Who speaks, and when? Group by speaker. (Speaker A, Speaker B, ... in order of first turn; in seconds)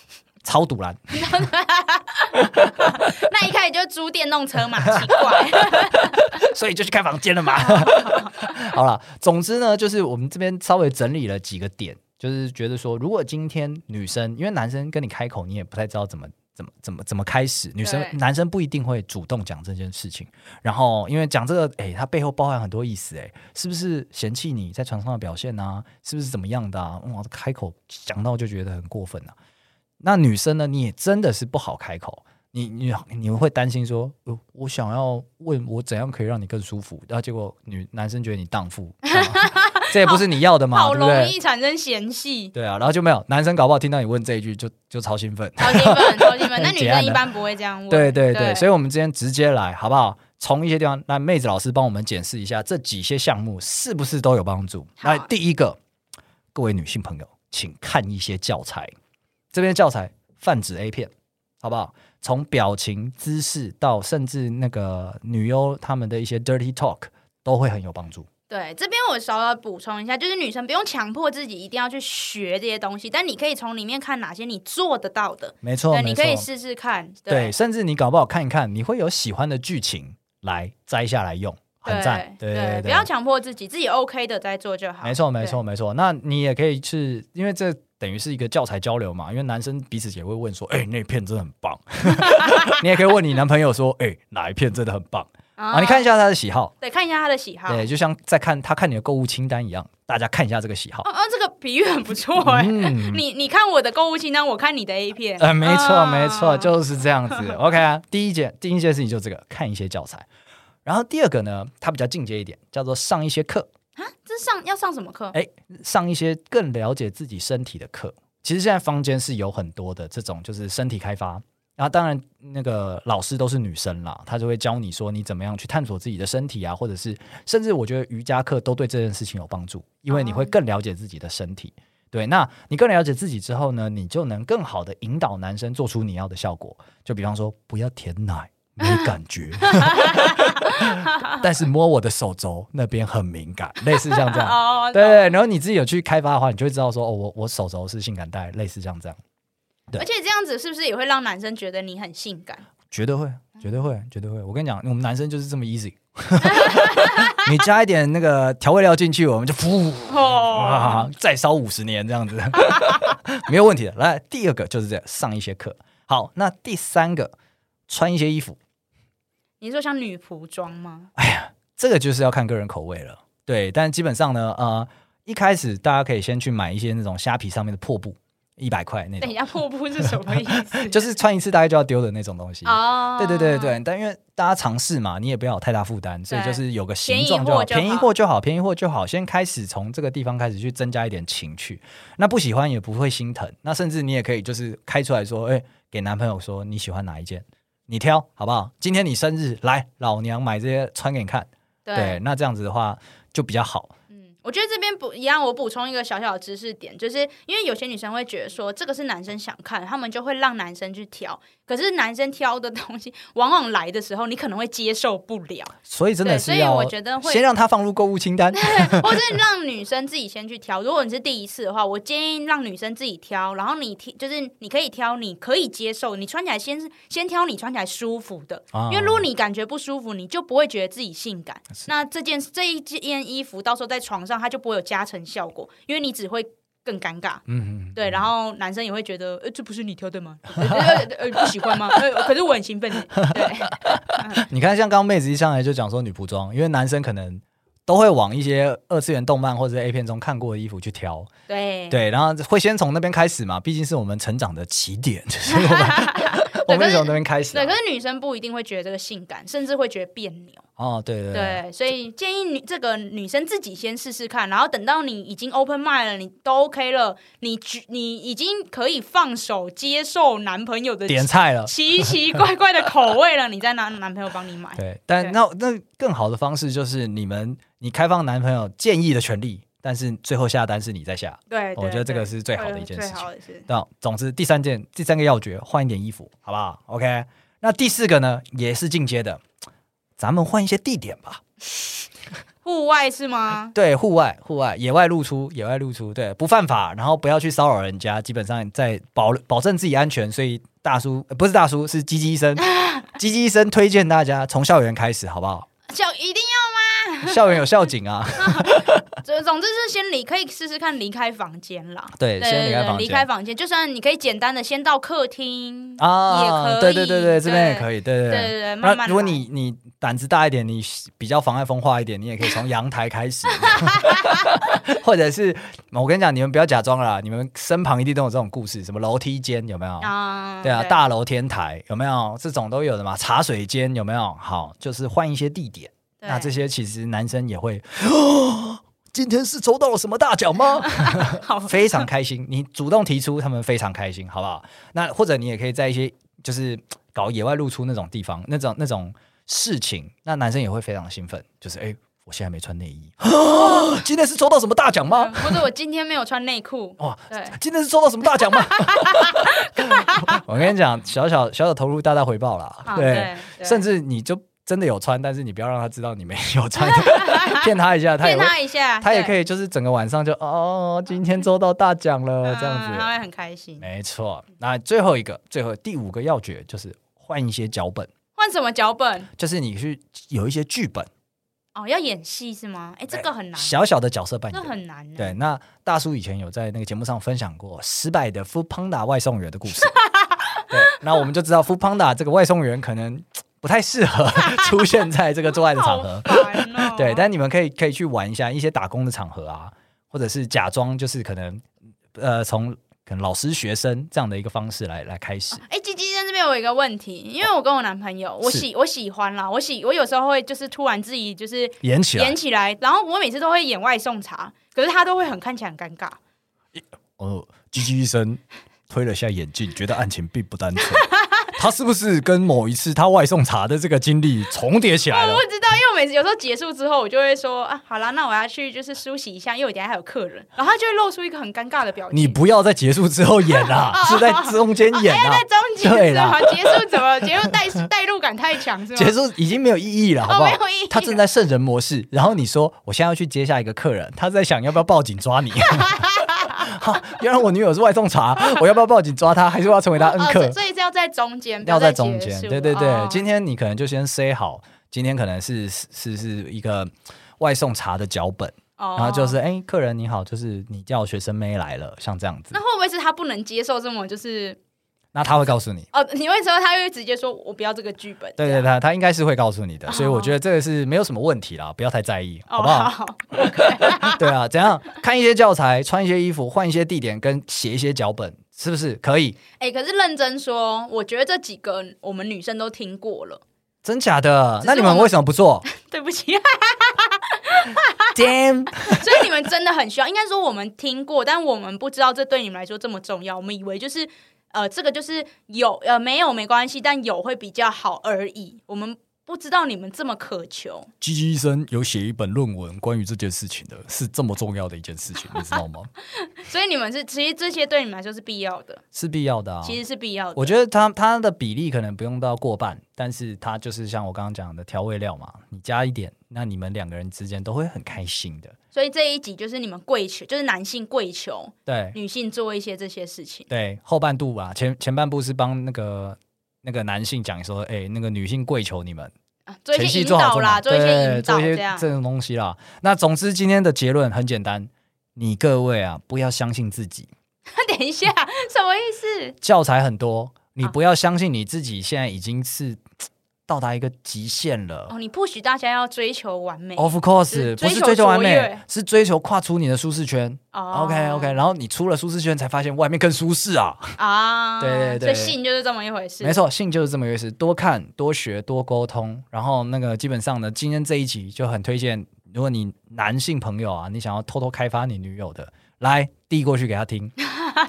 Speaker A: 0.4-1.2, 2.6-3.1, 4.8-29.3, 30.0-41.3, 42.5-47.2, 47.9-55.8, 56.5-58.9, 59.5-68.3, 75.6-76.5, 77.3-83.1, 85.0-96.7, 97.7-101.0, 102.4-103.2, 105.4-110.2, 110.8-113.7, 115.3-149.2, 152.9-167.3, 167.9-168.6, 171.2-179.4, 180.7-203.9, 215.8-219.2, 228.7-229.2, 237.5-238.3, 240.6-242.0, 243.2-251.3, 251.9-257.7, 260.8-261.6, 271.1-272.1, 274.8-289.4, 290.2-291.4, 293.7-305.7, 307.2-309.2, 312.2-313.2, 316.0-355.6, 357.0-373.1, 373.8-378.1, 379.4-381.1, 383.1-389.9, 390.7-405.6, 411.8-412.4, 416.7-425.4, 432.1-437.5, 438.9-446.0, 446.6-450.6, 451.6-462.6, 465.1-465.9, 468.4-479.4, 483.8-485.6, 488.1-489.2, 501.0-505.9, 508.9-509.8, 510.4-518.5, 521.7-522.0, 523.5-529.1, 529.7-537.1, 539.4-542.8, 543.5-544.9, 546.8-553.9, 554.6-555.4, 556.2-567.1
Speaker B: 1.1-6.3, 7.5-8.5, 17.8-18.2, 39.1-42.5, 45.6-48.7, 55.0-55.3, 68.5-77.5, 81.8-85.6, 92.0-92.8, 95.6-96.1, 96.8-97.8, 101.0-106.7, 107.3-107.6, 114.0-115.4, 130.1-130.5, 138.8-141.4, 143.9-145.3, 149.9-152.6, 156.4-157.5, 160.1-161.1, 169.6-171.1, 179.2-181.1, 182.6-183.8, 186.3-188.1, 201.8-202.2, 204.1-217.4, 218.5-237.4, 237.9-244.4, 251.5-252.0, 255.5-260.6, 261.3-275.4, 281.5-283.7, 292.6-293.7, 302.6-303.1, 305.9-307.6, 308.4-319.4, 323.6-324.5, 330.0-331.0, 336.2-336.6, 340.8-342.1, 353.5-353.9, 355.1-357.6, 358.5-360.4, 362.9-363.8, 366.8-367.7, 368.2-369.3, 372.4-373.9, 378.4-379.3, 381.7-383.8, 384.5-385.4, 389.9-391.0, 395.7-397.2, 405.5-416.2, 420.8-421.5, 425.1-432.4, 433.5-439.2, 440.2-441.2, 445.7-446.8, 450.0-453.2, 458.8-459.4, 462.5-464.6, 465.9-468.7, 469.9-470.3, 472.5-474.2, 479.6-483.4, 484.6-485.1, 485.7-488.2, 488.8-500.9, 506.1-508.8, 509.6-510.5, 518.7-523.5, 529.5-531.9, 537.5-539.3, 544.9-548.6, 550.5-551.4, 554.0-556.4